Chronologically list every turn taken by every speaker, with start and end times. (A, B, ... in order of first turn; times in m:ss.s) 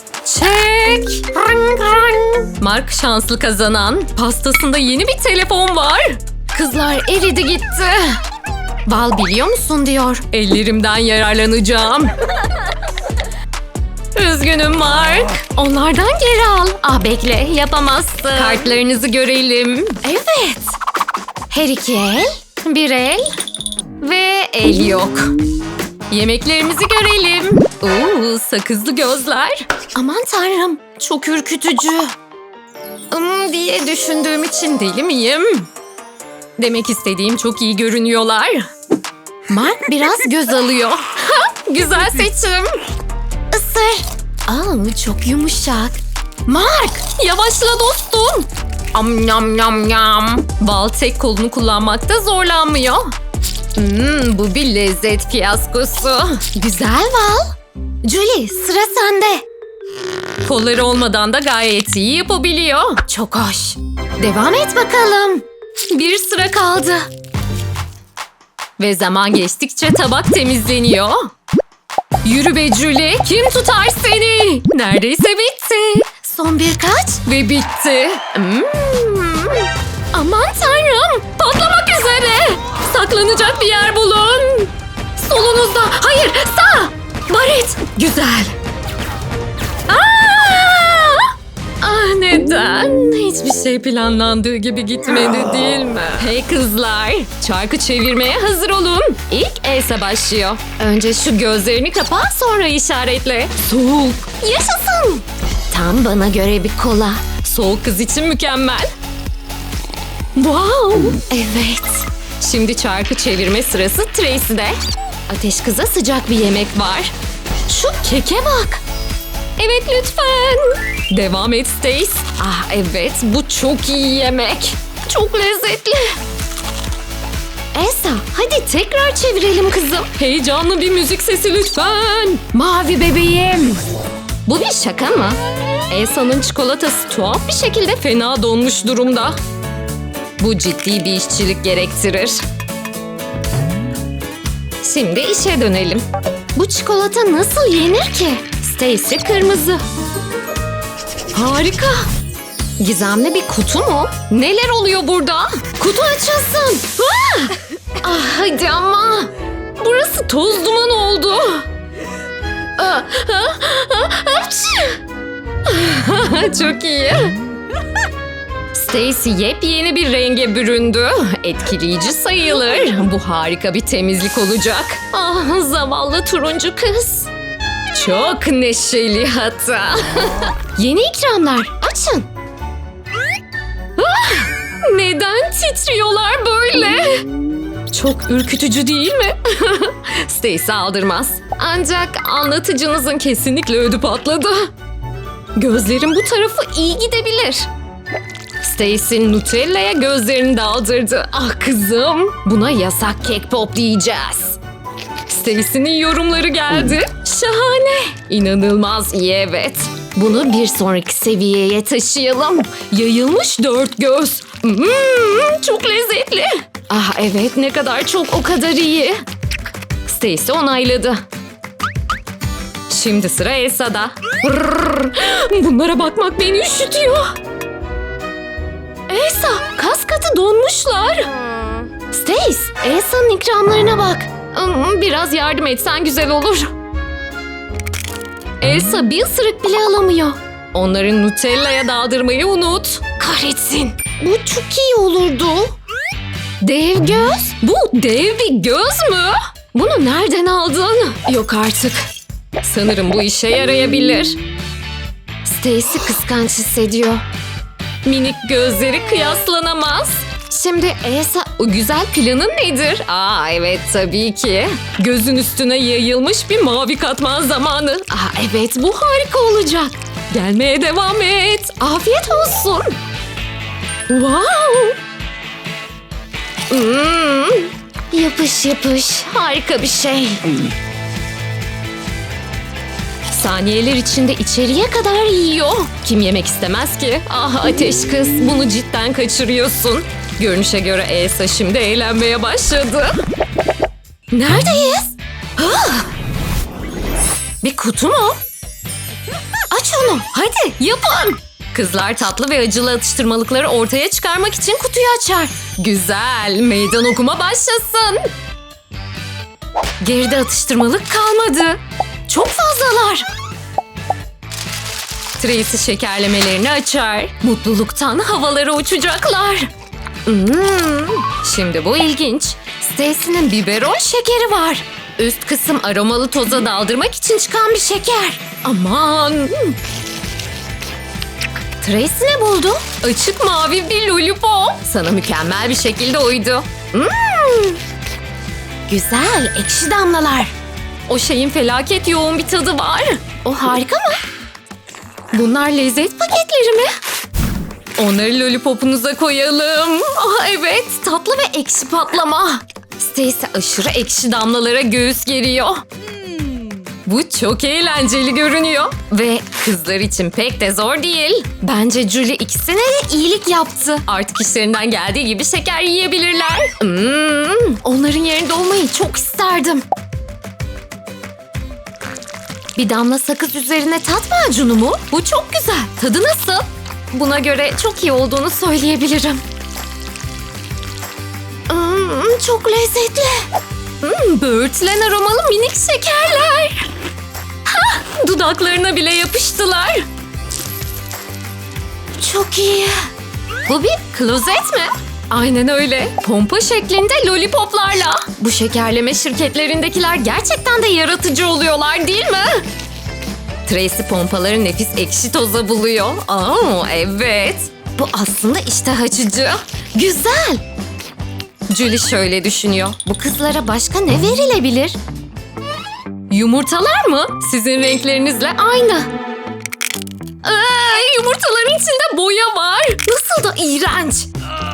0:00.2-0:08.2 A
0:08.8-0:12.2 A
0:14.1-0:20.8 A
0:21.5-0:23.3 A
0:24.0-0:25.3 A
0:26.1-0:32.1 A
0:33.1-0:35.7 A
0:36.6-0:38.7 A
0:39.5-0:42.8 A
0:43.5-0:53.1 A
0:53.8-0:59.4 A
1:00.4-1:07.1 A
1:08.8-1:11.3 A
1:12.2-1:28.5 A
1:29.9-1:48.9 A
1:50.3-1:54.8 A
1:55.3-1:57.1 A
1:57.7-1:58.8 A
1:59.6-2:06.2 A
2:07.7-2:13.8 A
2:14.4-2:15.4 A
2:15.9-2:19.4 A
2:20.4-2:22.4 A
2:24.8-2:29.8 A
2:31.3-2:32.1 A
2:32.8-2:41.6 A
2:42.8-2:45.0 A
2:45.6-2:47.3 A
2:48.7-2:57.3 A
2:57.9-3:02.3 A
3:04.0-3:07.2 A
3:07.9-3:14.7 A
3:15.5-3:17.7 A
3:18.6-3:24.6 A
3:25.3-3:39.2 A
3:40.0-3:41.2 A
3:42.9-3:47.4 A
3:49.1-3:56.7 A
3:58.6-4:05.8 A
4:06.6-4:12.1 A
4:12.6-4:14.4 A
4:15.4-4:17.2 A
4:18.0-4:33.0 A
4:34.1-4:35.0 A
4:36.7-4:40.5 A
4:43.3-4:53.2 A
4:54.3-4:56.1 A
4:57.6-4:58.4 A
4:59.7-5:08.3 A
5:10.0-5:13.3 A
5:15.4-5:19.7 A
5:20.2-5:29.8 A
5:31.8-5:37.8 A
5:38.9-5:40.5 A
5:41.1-5:44.2 A
5:45.3-5:46.9 A
5:48.0-5:55.8 A
5:57.0-6:09.8 A
6:12.8-6:19.4 A
6:21.7-6:23.5 A
6:24.0-6:26.9 A
6:27.7-6:30.1 A
6:32.2-6:33.1 A
6:33.6-6:42.6 A
6:43.7-6:50.6 A
6:51.7-6:55.0 A
6:56.3-6:59.1 A
7:00.4-7:04.3 A